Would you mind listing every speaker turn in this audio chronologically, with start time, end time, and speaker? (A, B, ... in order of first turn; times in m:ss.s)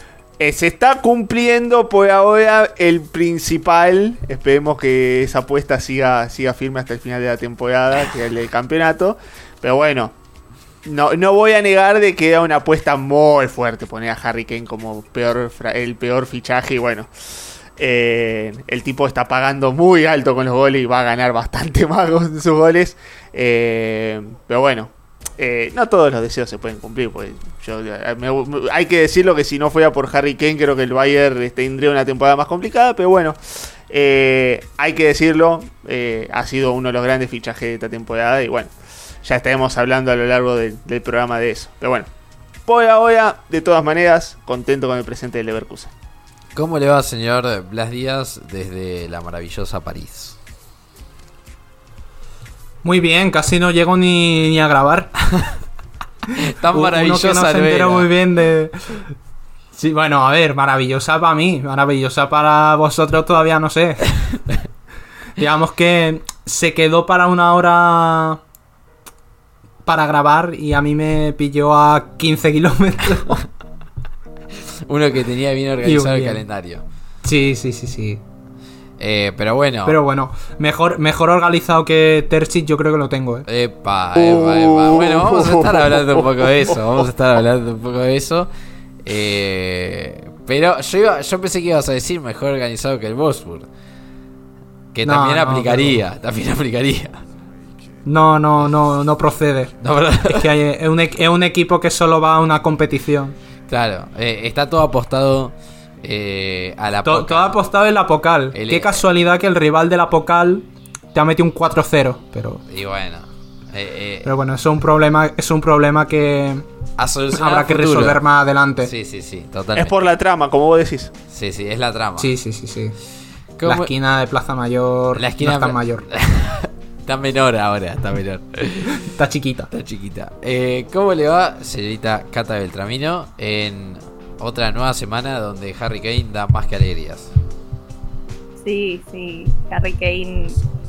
0:00.4-0:10.1 A
0:10.8-0:17.1 A
0:17.8-0:38.7 A
0:39.2-0:42.1 A
0:42.7-0:45.9 A
0:46.6-0:50.4 B
0:52.8-0:55.1 C
0:56.4-0:58.1 B
0:56.7-0:59.1 C
0:59.8-1:04.2 C
1:05.4-1:08.4 C
1:09.9-1:13.4 C
1:14.9-1:16.8 B
1:15.8-1:16.4 C
1:17.2-1:18.2 C
1:19.0-1:20.0 B
1:19.8-1:23.5 C
1:23.5-1:28.5 B
1:24.1-1:26.8 A
1:29.0-1:33.7 B
1:34.9-1:37.2 B
1:35.0-1:36.0 C
1:38.0-1:43.4 C
1:39.8-1:40.5 B
1:43.7-1:47.6 B
1:47.0-1:52.6 C
1:48.5-1:49.0 B
1:52.7-1:54.3 B
1:54.2-1:56.7 C
1:57.0-1:58.2 B
1:57.3-1:58.9 C
1:58.8-2:00.0 B
1:59.8-2:01.1 A
2:01.3-2:02.3 B
2:02.2-2:03.0 C
2:03.6-2:03.9 B
2:03.6-2:06.0 C
2:05.2-2:09.0 B
2:08.9-2:09.7 C
2:09.7-2:17.3 B
2:18.6-2:20.6 D